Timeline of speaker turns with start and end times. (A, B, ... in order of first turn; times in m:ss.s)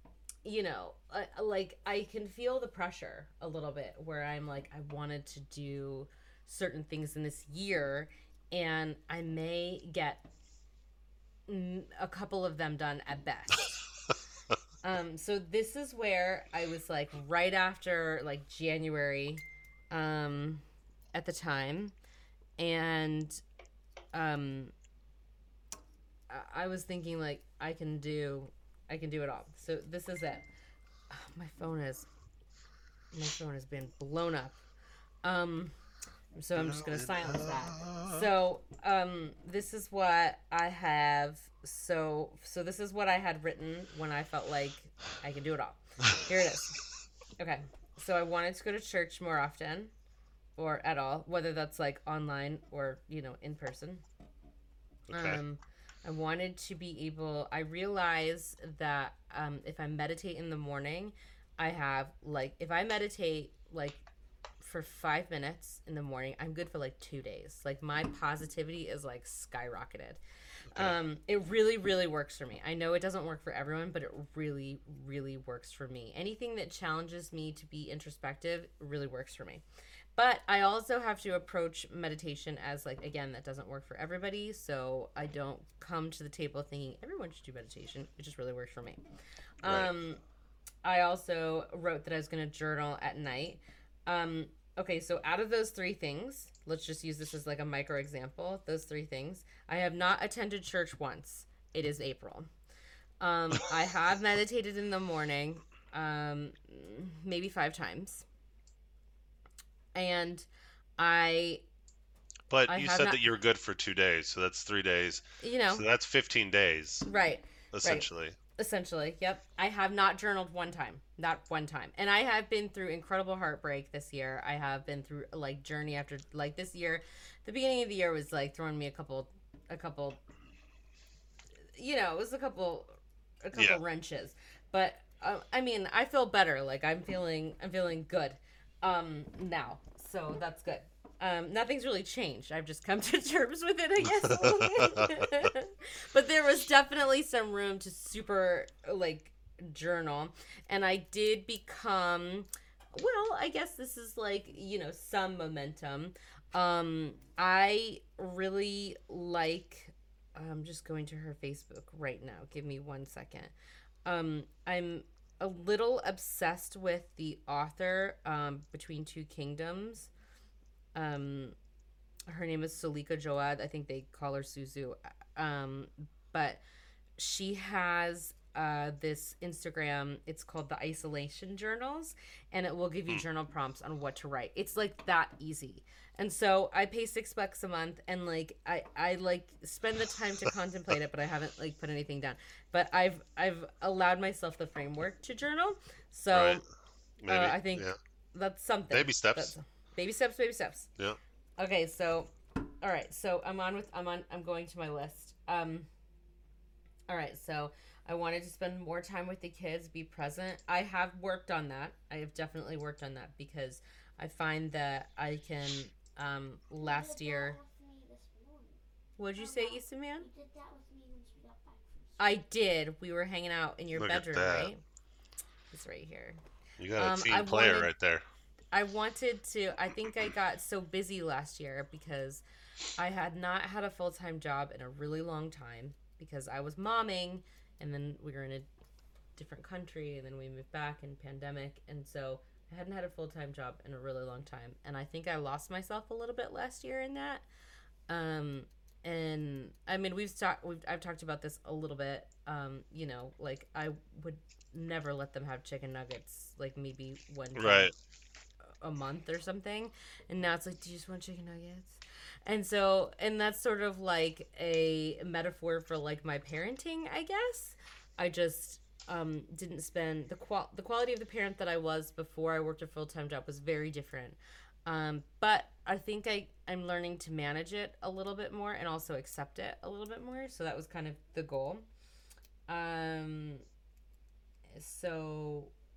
0:00.4-0:10.3 A
0:11.5-0:13.8 A
0:14.8-0:21.9 A
0:22.6-0:23.4 A
0:24.1-0:24.7 A
0:26.3-0:30.5 A
0:31.1-0:32.1 A
0:33.1-0:34.6 A
0:35.2-0:35.8 A
0:36.4-0:46.8 A
0:36.6-0:38.3 B
0:47.4-0:49.9 A
0:50.6-0:54.0 A
0:55.1-0:55.4 B
0:55.1-1:04.0 A
1:04.6-1:10.2 A
1:10.7-1:19.6 A
1:20.2-1:29.0 A
1:29.6-1:30.2 A
1:29.6-1:29.9 B
1:30.8-1:42.5 A
1:43.2-1:48.2 A
1:50.0-1:50.5 A
1:51.0-1:51.6 A
1:52.5-1:57.1 B
1:52.7-1:53.2 A
1:55.4-1:55.8 A
1:57.1-1:58.1 A
1:57.7-1:58.4 B
1:58.6-2:10.2 A
2:11.8-2:43.5 A
2:13.6-2:13.8 B
2:24.2-2:25.3 B
2:44.0-2:50.1 A
2:51.0-2:51.6 A
2:52.3-2:56.6 A
2:57.2-3:16.6 A
3:16.3-3:16.6 B
3:17.2-3:18.0 B
3:17.3-3:20.9 A
3:18.9-3:19.5 B
3:21.6-3:25.9 A
3:27.1-3:37.6 A
3:36.8-3:38.8 C
3:39.2-3:40.3 A
3:39.4-3:41.8 C
3:42.2-3:44.8 A
3:43.9-3:44.7 B
3:45.7-3:46.4 A
3:46.8-3:48.2 B
3:47.0-3:47.9 A
3:48.7-3:52.4 A
3:53.0-3:58.7 A
3:59.4-4:07.4 A
4:08.1-4:17.9 A
4:17.6-4:17.9 B
4:18.8-4:41.8 A
4:42.7-4:43.6 A
4:44.7-4:45.7 A